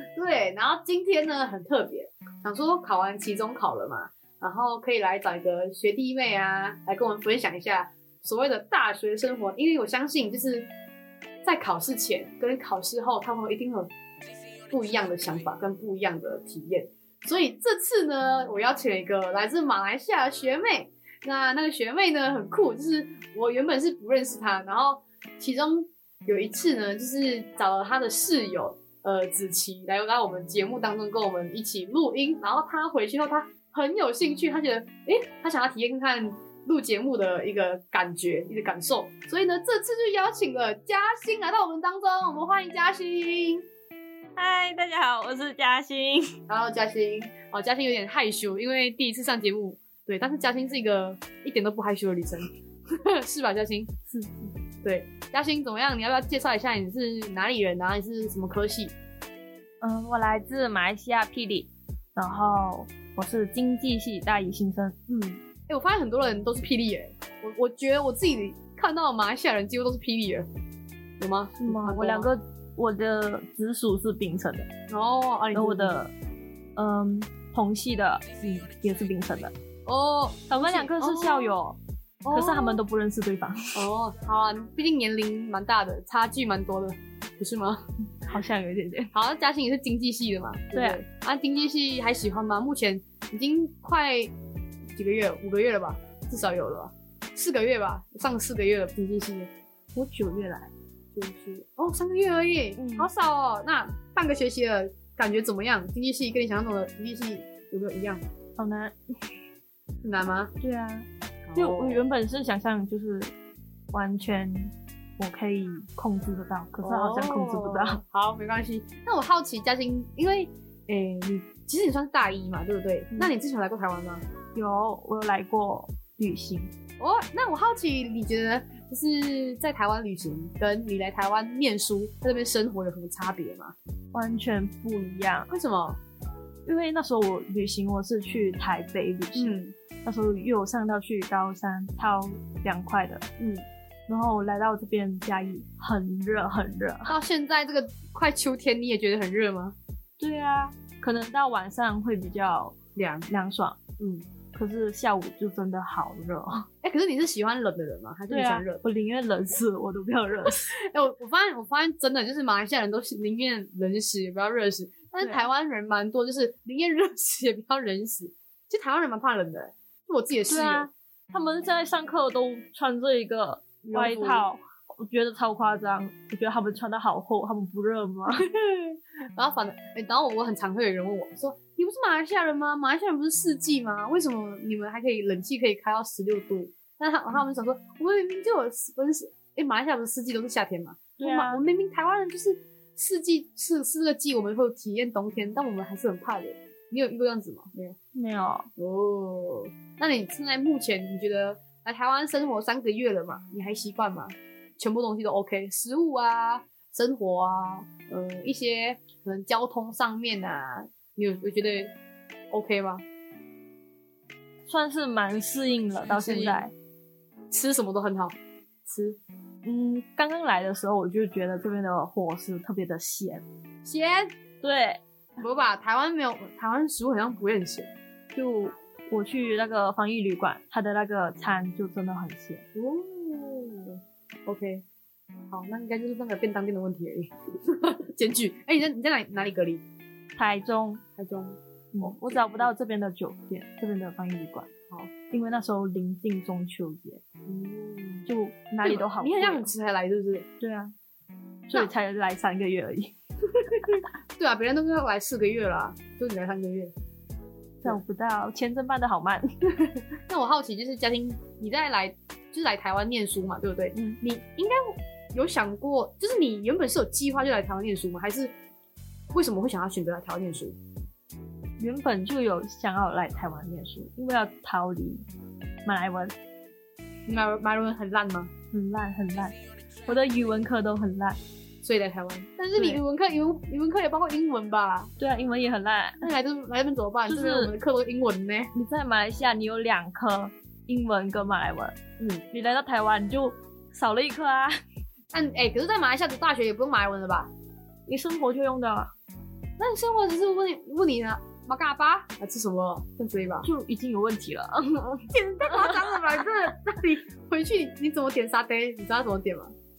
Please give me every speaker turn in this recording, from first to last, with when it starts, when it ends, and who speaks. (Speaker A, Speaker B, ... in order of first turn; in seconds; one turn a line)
Speaker A: 0.1-10.7
Speaker A: 11.4-13.9
Speaker A: 14.7-43.6
Speaker B: 44.4-46.4
Speaker A: 46.5-53.9
Speaker B: 54.1-54.5
Speaker A: 54.8-58.9
Speaker B: 59.8-65.0
Speaker A: 65.1-70.5
Speaker A: 71.2-72.3
Speaker B: 71.6-74.7
Speaker A: 74.9-76.0
Speaker B: 75.5-76.1
Speaker B: 76.8-79.5
Speaker A: 79.8-81.5
Speaker B: 80.5-81.8
Speaker A: 82.2-82.8
Speaker B: 82.3-83.8
Speaker A: 83.7-87.8
Speaker B: 88.2-89.1
Speaker A: 89.1-94.3
Speaker B: 90.7-91.0
Speaker A: 94.9-99.5
Speaker B: 99.9-100.7
Speaker A: 101.1-108.2
Speaker B: 102.8-103.1
Speaker B: 108.6-109.0
Speaker A: 110.0-110.5
Speaker B: 110.6-113.3
Speaker A: 111.5-112.0
Speaker B: 113.9-118.0
Speaker A: 116.8-124.2
Speaker B: 124.5-126.7
Speaker A: 127.0-133.7
Speaker B: 134.1-135.5
Speaker A: 135.5-136.0
Speaker B: 136.7-143.2
Speaker A: 139.3-139.7
Speaker A: 143.4-143.6
Speaker B: 144.1-147.1
Speaker A: 147.1-149.8
Speaker B: 150.2-152.8
Speaker A: 152.9-153.3
Speaker B: 153.3-153.8
Speaker A: 154.0-154.2
Speaker B: 154.5-156.7
Speaker A: 156.8-158.8
Speaker B: 158.3-160.7
Speaker A: 160.7-170.9
Speaker B: 170.5-178.4
Speaker A: 173.8-174.4
Speaker A: 178.3-197.9
Speaker B: 191.2-191.6
Speaker B: 198.1-198.7
Speaker A: 198.8-211.9
Speaker A: 212.5-213.0
Speaker B: 214.7-216.7
Speaker A: 216.0-216.6
Speaker A: 217.5-218.3
Speaker A: 218.8-219.2
Speaker B: 219.6-223.4
Speaker A: 223.8-224.3
Speaker B: 224.6-225.0
Speaker A: 225.4-227.9
Speaker B: 228.3-232.6
Speaker A: 232.7-234.8
Speaker A: 235.5-239.8
Speaker B: 240.3-241.0
Speaker A: 241.2-242.7
Speaker B: 241.9-244.7
Speaker B: 245.3-247.2
Speaker A: 247.4-248.3
Speaker B: 248.2-249.7
Speaker A: 248.8-250.5
Speaker B: 250.6-250.9
Speaker B: 251.7-253.1
Speaker A: 253.5-256.9
Speaker B: 257.8-259.5
Speaker A: 259.8-268.5
Speaker B: 263.9-264.2
Speaker A: 269.3-270.8
Speaker B: 271.8-275.2
Speaker B: 275.8-276.4
Speaker A: 277.3-278.5
Speaker B: 278.7-281.4
Speaker A: 281.8-285.1
Speaker B: 282.8-283.0
Speaker B: 285.2-286.3
Speaker A: 286.2-288.7
Speaker B: 287.3-287.7
Speaker B: 288.7-291.9
Speaker A: 292.2-292.4
Speaker B: 292.5-294.8
Speaker A: 295.3-297.5
Speaker B: 298.1-299.1
Speaker A: 299.8-303.7
Speaker B: 303.6-306.0
Speaker A: 305.3-309.7